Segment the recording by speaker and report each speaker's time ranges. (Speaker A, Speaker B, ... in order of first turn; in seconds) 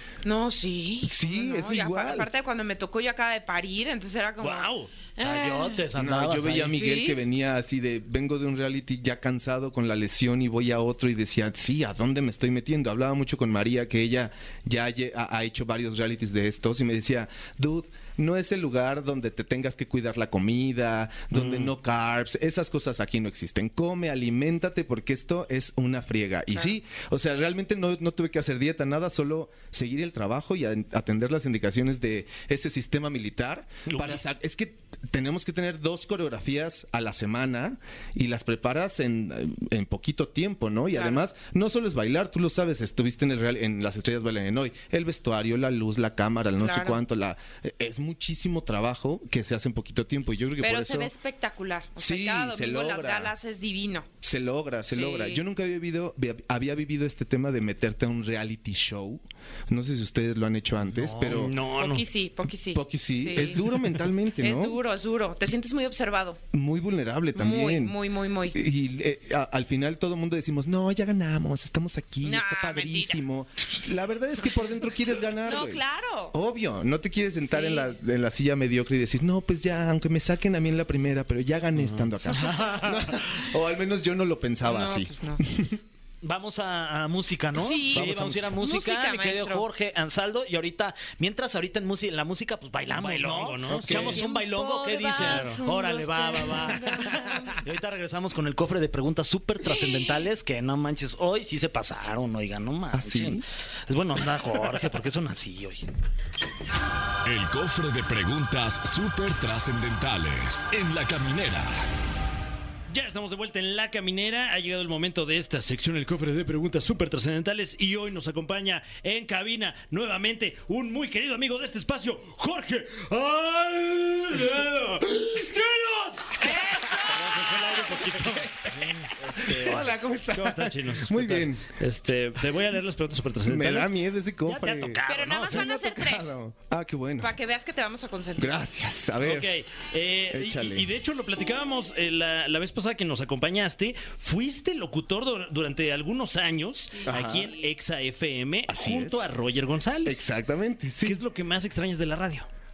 Speaker A: 0.2-5.8, 6.7-7.2, 40.9-41.2, 46.6-47.0, 50.6-54.1, 54.9-55.4, 61.7-63.6, 64.4-66.4, 67.3-68.6, 72.2-73.2, 75.4-76.3, 77.4-77.9, 84.6-85.4, 87.5-89.7, 93.9-97.6, 99.6-100.3, 126.4-127.9, 135.1-136.4, 137.2-138.6, 147.0-147.4
Speaker B: 1.0-2.3, 5.9-51.1, 52.0-53.3, 54.2-61.6, 62.7-64.8, 66.5-68.0, 68.5-85.8, 87.9-88.6, 93.7-94.2, 102.9-103.4, 128.2-128.7, 129.4-131.7, 133.4-137.3, 138.4-139.5, 140.3-140.9, 147.1-147.6, 148.7-149.3, 150.0-151.2
Speaker C: 4.4-4.8, 21.4-21.7, 33.9-34.2, 61.1-62.0, 92.8-94.2, 95.1-95.6, 112.9-133.9, 134.7-135.4, 139.2-150.2, 151.0-152.5
Speaker D: 5.2-6.8, 82.4-82.8, 86.2-105.8, 134.5-135.5
Speaker E: 107.2-111.8